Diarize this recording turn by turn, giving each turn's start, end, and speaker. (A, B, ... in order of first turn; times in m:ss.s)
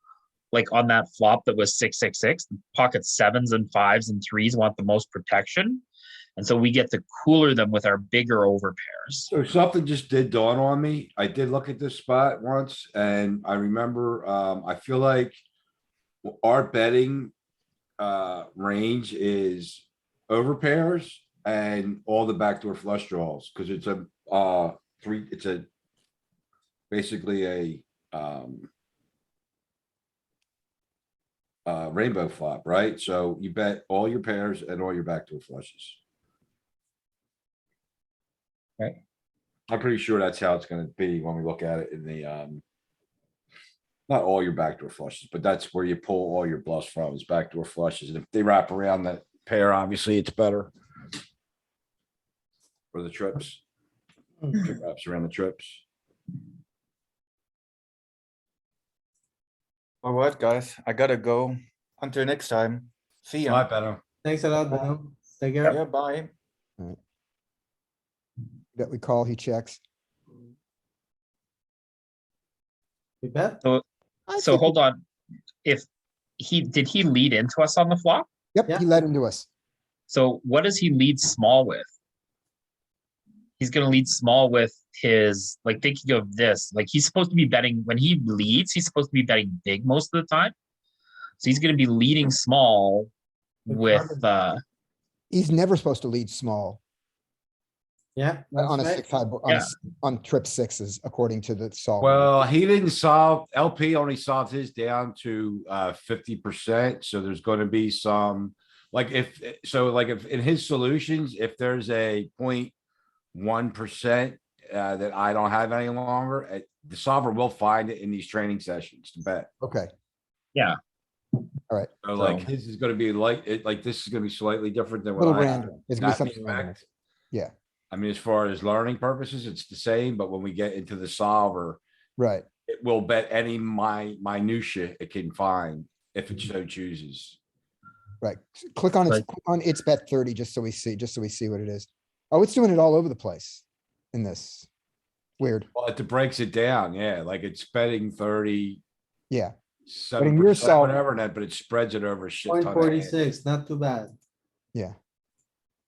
0:00.5-0:05.8 A
0:06.4-0:09.3 A
0:09.3-0:15.4 B
0:16.2-0:17.3 B
0:18.0-0:25.7 B
0:26.9-0:28.7 B
0:31.7-0:36.0 B
0:39.7-0:42.6 B
0:44.1-0:50.7 B
0:52.9-0:53.6 B
0:54.5-0:55.8 B
1:00.0-1:03.7 C
1:03.5-1:04.0 B
1:04.2-1:05.8 D
1:05.7-1:06.3 C
1:08.8-1:09.8 E
1:13.2-1:13.6 D
1:14.3-1:14.8 E
1:14.4-1:15.0 A
1:16.4-1:18.3 A
1:18.5-1:19.5 E
1:20.1-1:21.9 A
1:23.6-1:30.5 A
1:31.4-1:33.1 A
1:33.7-1:34.6 A
1:33.7-1:34.2 D
1:35.3-1:36.8 E
1:38.2-1:39.1 D
1:38.6-1:42.3 E
1:42.0-1:52.7 B
1:53.3-1:59.5 B
1:59.6-1:59.9 E
2:02.0-2:06.8 B
2:02.2-2:02.5 A
2:05.2-2:06.8 E
2:07.9-2:11.8 B
2:12.2-2:12.5 E
2:12.7-2:17.4 B
2:18.2-2:24.7 E
2:25.4-2:25.7 E
2:25.8-2:28.8 B
2:29.9-2:33.3 B
2:30.2-2:31.0 E
2:32.5-2:34.1 D